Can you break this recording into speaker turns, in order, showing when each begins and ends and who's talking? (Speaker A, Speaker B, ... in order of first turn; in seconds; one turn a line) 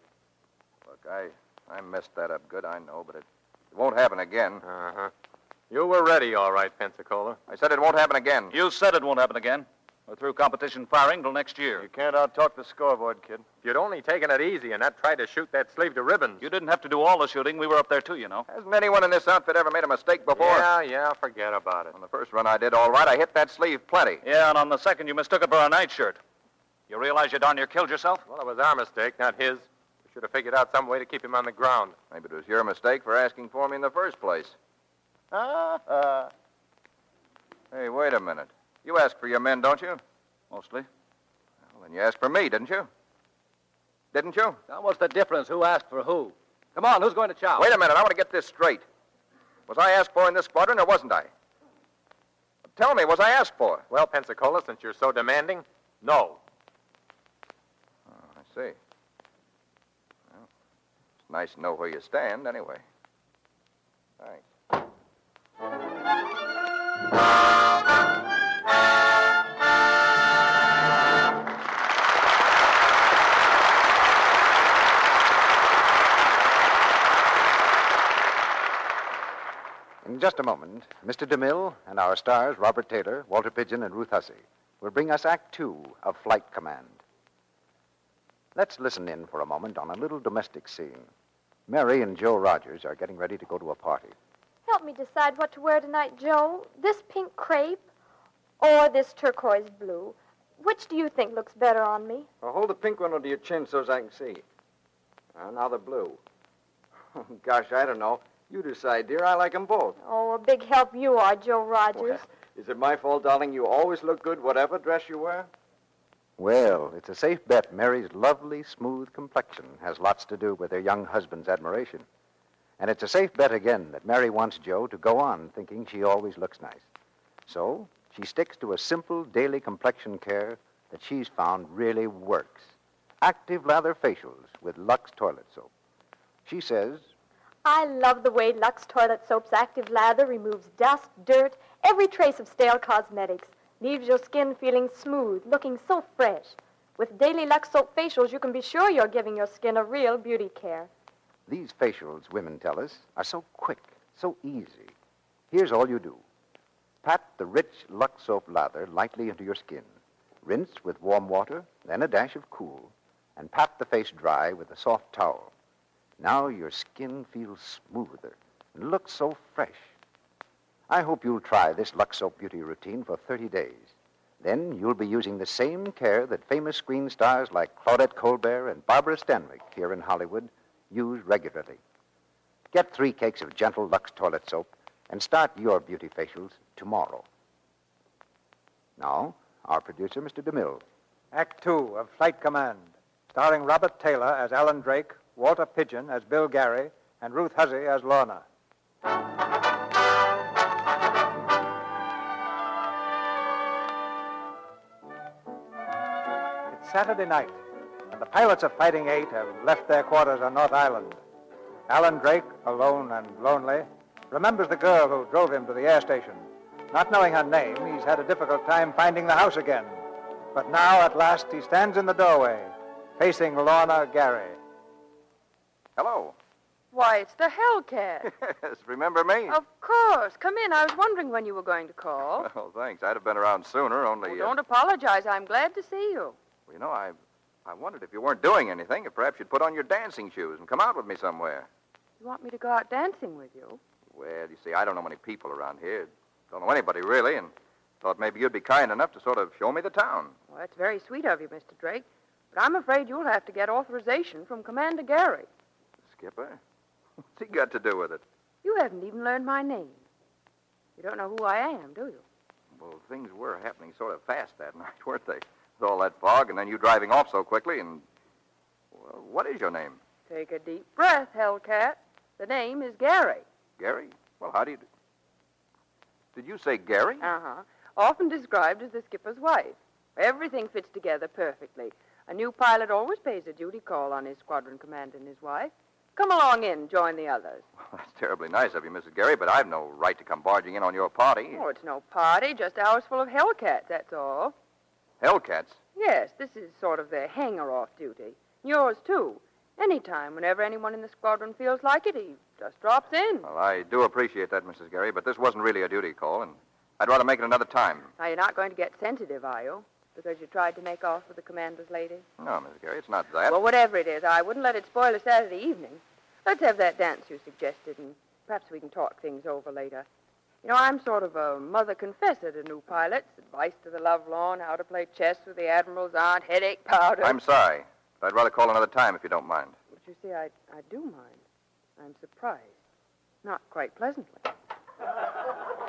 Speaker A: 0.9-4.6
Speaker B: 4.6-5.1
Speaker B: 5.7-7.4
Speaker A: 7.5-8.5
Speaker C: 8.5-11.8
Speaker D: 11.8-13.4
Speaker B: 13.6-16.4
Speaker C: 16.4-18.4
Speaker A: 18.5-20.7
Speaker B: 20.3-21.9
Speaker A: 21.9-24.2
Speaker C: 24.2-26.2
Speaker C: 26.9-28.2
Speaker B: 28.3-31.9
Speaker A: 32.1-34.5
Speaker D: 35.3-36.3
Speaker A: 37.7-40.0
Speaker C: 40.5-40.9
Speaker A: 41.7-42.9
Speaker A: 44.1-44.6
Speaker E: 44.7-47.7
Speaker A: 47.6-48.8
Speaker A: 49.7-51.3
Speaker A: 52.7-53.8
Speaker B: 53.9-56.4
Speaker A: 58.1-58.8
Speaker A: 61.3-62.8
Speaker A: 64.2-64.4
Speaker F: 80.0-87.0
Speaker F: 88.5-91.1
Speaker F: 91.7-94.1
Speaker G: 94.7-97.8
Speaker G: 98.6-102.3
Speaker H: 102.4-104.4
Speaker H: 105.3-106.2
Speaker H: 107.1-110.0
Speaker G: 110.0-112.2
Speaker H: 111.9-115.5
Speaker F: 116.4-122.0
Speaker F: 122.8-126.9
Speaker F: 127.5-135.7
Speaker F: 136.4-137.1
Speaker G: 137.6-150.9
Speaker F: 151.5-154.9
Speaker F: 155.5-156.2
Speaker F: 157.0-159.9
Speaker F: 160.4-165.5
Speaker F: 166.2-169.9
Speaker F: 170.9-181.8
Speaker F: 182.7-187.2
Speaker F: 189.0-190.8
Speaker I: 191.3-198.4
Speaker I: 206.7-211.2
Speaker I: 211.9-224.6
Speaker A: 225.9-226.3
Speaker J: 226.9-228.3
Speaker A: 228.2-229.6
Speaker J: 229.5-232.5
Speaker A: 232.4-234.5
Speaker J: 234.2-236.3
Speaker A: 236.7-241.7
Speaker J: 242.2-243.8
Speaker A: 244.1-250.3
Speaker J: 250.5-255.5
Speaker A: 256.1-256.6
Speaker A: 257.3-258.2
Speaker J: 258.6-260.0
Speaker J: 261.0-262.2
Speaker A: 262.7-268.0
Speaker A: 268.9-270.0
Speaker J: 270.3-273.4
Speaker A: 273.8-274.8
Speaker A: 276.3-277.3
Speaker J: 277.2-287.6
Speaker A: 287.8-291.6
Speaker J: 291.5-294.5
Speaker A: 295.2-295.8
Speaker J: 295.9-303.5
Speaker A: 303.4-308.1
Speaker J: 308.2-312.2
Speaker A: 312.4-313.6
Speaker J: 313.5-320.1
Speaker J: 320.6-327.4
Speaker A: 327.2-329.7
Speaker J: 329.9-331.4
Speaker J: 332.0-332.8
Speaker J: 333.4-334.5